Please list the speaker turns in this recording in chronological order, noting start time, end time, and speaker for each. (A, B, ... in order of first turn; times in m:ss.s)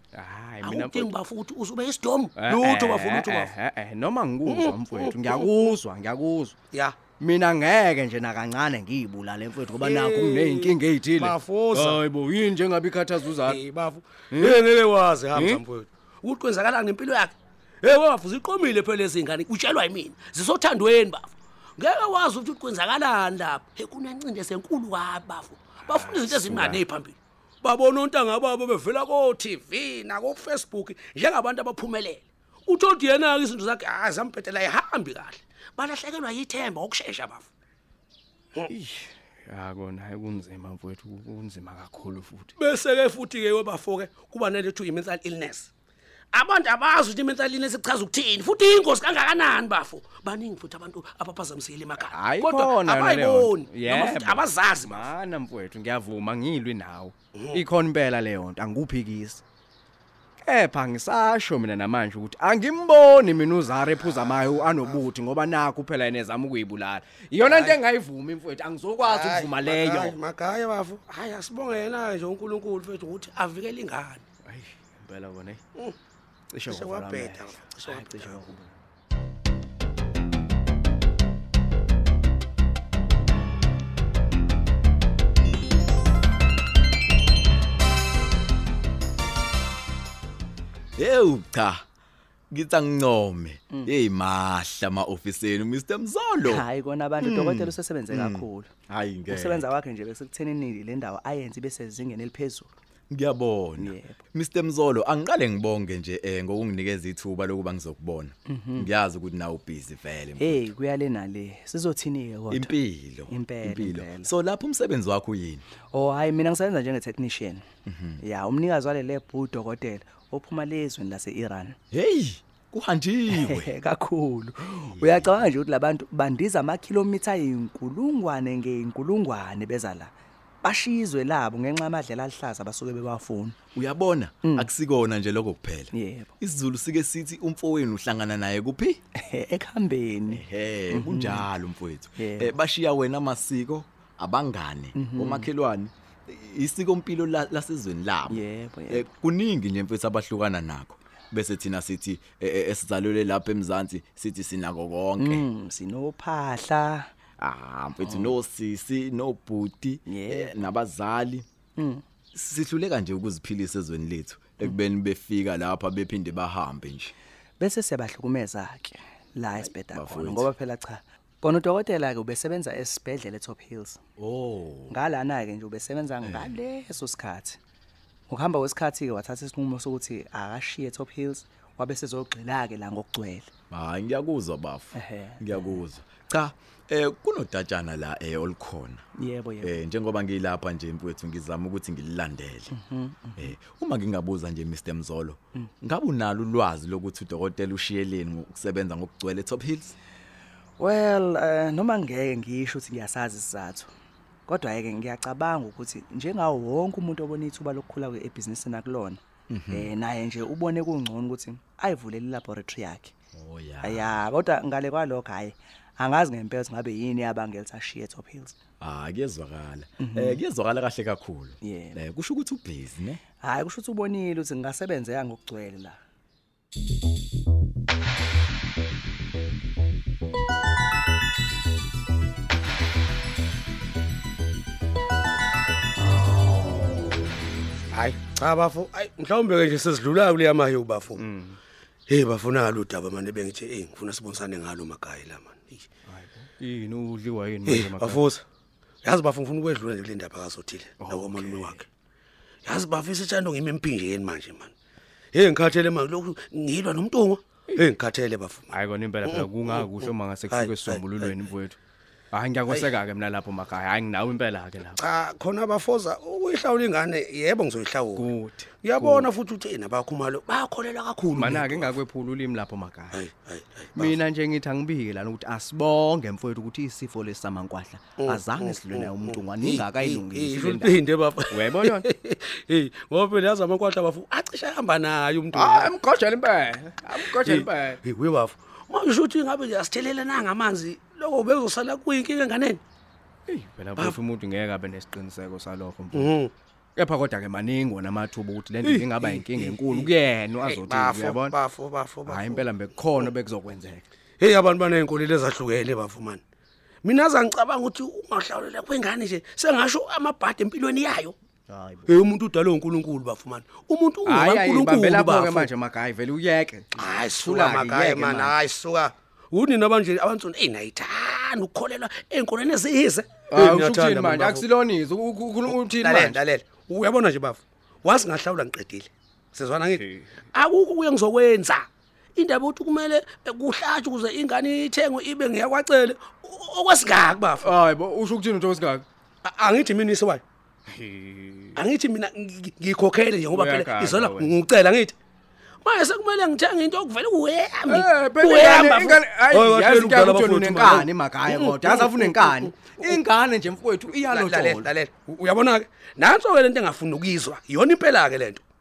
0:00.2-0:01.1 A
0:00.6-0:03.5 B
0:02.4-0:06.6 A
0:04.5-0:05.5 B
0:06.7-0:07.0 B
0:07.2-0:13.6 A
0:09.8-0:12.0 B
0:13.5-0:37.5 B
0:14.3-0:14.6 A
0:15.3-0:15.6 A
0:25.9-0:26.8 A
0:38.7-0:42.5 A
0:42.6-0:45.7 B
0:46.3-0:55.1 B
0:52.0-0:59.4 A
0:57.4-0:57.6 B
1:00.4-1:10.2 A
1:04.1-1:05.0 B
1:07.4-1:07.8 B
1:09.0-1:14.2 B
1:14.4-1:15.6 A
1:16.5-1:18.7 A
1:16.7-1:18.5 B
1:31.0-1:31.8 C
1:32.5-1:36.6 C
1:36.4-1:38.7 D
1:37.2-1:39.7 C
1:39.3-1:42.7 D
1:43.1-1:50.7 C
1:43.8-1:44.2 D
1:48.5-1:48.9 D
1:50.4-1:52.7 D
1:52.5-1:55.6 C
1:53.3-1:54.3 D
1:55.9-1:57.7 D
1:57.9-1:58.2 C
1:58.2-2:01.8 D
2:01.9-2:03.7 C
2:03.3-2:13.6 D
2:04.7-2:05.4 C
2:13.7-2:19.0 C
2:14.4-2:14.7 D
2:15.9-2:16.4 D
2:19.2-2:21.5 D
2:20.3-2:35.5 C
2:22.2-2:22.5 D
2:24.9-2:25.5 D
2:28.3-2:29.1 D
2:35.2-2:37.1 D
2:37.4-2:41.5 C
2:40.1-2:40.7 D
2:41.8-2:42.0 D
2:42.3-2:47.1 C
2:47.6-2:54.0 D
2:49.6-2:50.5 C
2:54.2-2:55.0 C
2:54.9-2:57.6 D
2:58.3-3:03.5 D
3:03.7-3:09.0 C
3:04.9-3:05.8 D
3:09.2-3:09.8 D
3:09.6-3:12.7 C
3:12.7-3:13.5 D
3:13.4-3:20.0 C
3:20.8-3:23.9 D
3:24.5-3:33.1 D
3:29.5-3:29.9 C
3:33.3-3:34.2 C
3:33.8-3:38.6 D
3:38.8-3:43.2 C
3:40.0-3:40.4 D
3:41.6-3:42.0 D
3:43.4-3:46.0 D
3:57.9-4:01.2 B
4:01.2-4:01.6 A
4:02.1-4:05.9 B
4:06.1-4:08.2 A
4:07.7-4:08.4 B
4:09.0-4:11.8 B
4:11.0-4:11.8 A
4:12.6-4:14.7 B
4:15.3-4:18.7 B
4:18.7-4:21.8 A
4:19.2-4:21.3 B
4:22.3-4:25.0 A
4:25.0-4:28.3 B
4:28.2-4:29.3 A
4:28.8-4:32.0 B
4:31.3-4:33.2 A
4:33.1-4:34.2 B
4:34.0-4:42.0 A
4:38.2-4:45.9 B
4:45.5-4:48.0 A
4:47.2-4:52.8 B
4:53.5-4:56.3 A
4:56.1-4:56.5 B
4:57.0-5:01.6 A
4:58.8-5:00.1 B
5:00.6-5:02.7 B
5:02.3-5:04.1 A
5:04.4-5:06.4 B
5:07.0-5:11.4 B
5:11.7-5:12.2 A
5:12.1-5:15.7 B
5:14.2-5:18.6 A
5:17.0-5:24.7 B
5:23.5-5:26.4 A
5:25.7-5:37.7 B
5:30.0-5:30.2 A
5:37.6-5:39.0 A
5:39.4-5:40.4 B
5:40.9-5:41.8 A
5:41.8-5:45.2 B
5:43.5-5:44.6 A
5:45.8-5:53.0 B
5:47.9-5:54.9 A
5:54.2-5:58.6 B